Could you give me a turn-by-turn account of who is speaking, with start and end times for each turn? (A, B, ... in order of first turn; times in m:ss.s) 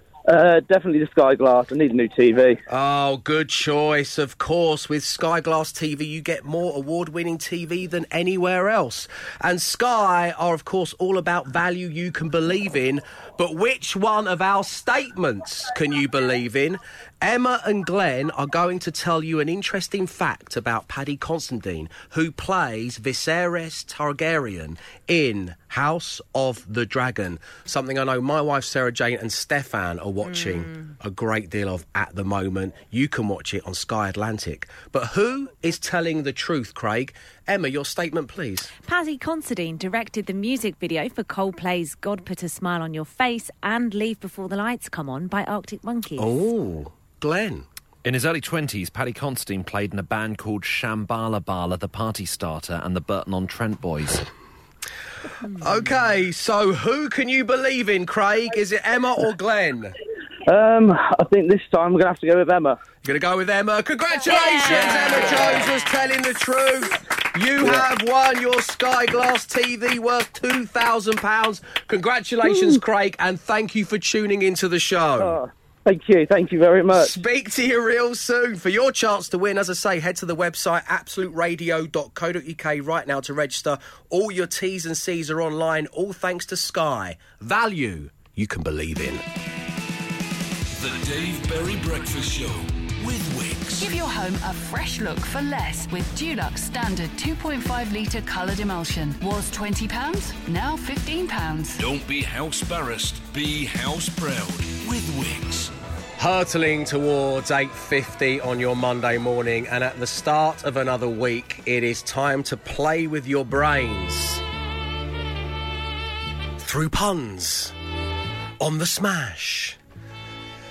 0:00.2-0:02.6 A
0:02.7-0:38.7 B
0:30.2-0:30.8 C
0:38.8-0:46.5 C
0:46.2-0:47.6 B
0:48.0-0:54.2 D
0:55.5-0:59.9 B
1:00.5-1:02.8 A
1:03.0-1:15.4 B
1:04.2-1:05.9 C
1:07.6-1:07.8 A
1:12.4-1:12.8 A
1:15.2-1:17.2 A
1:16.9-1:29.2 B
1:30.8-1:33.9 E
1:33.8-1:41.8 F
1:41.8-1:45.7 E
1:46.2-1:54.4 B
1:56.6-1:57.7 B
1:58.6-1:59.8 B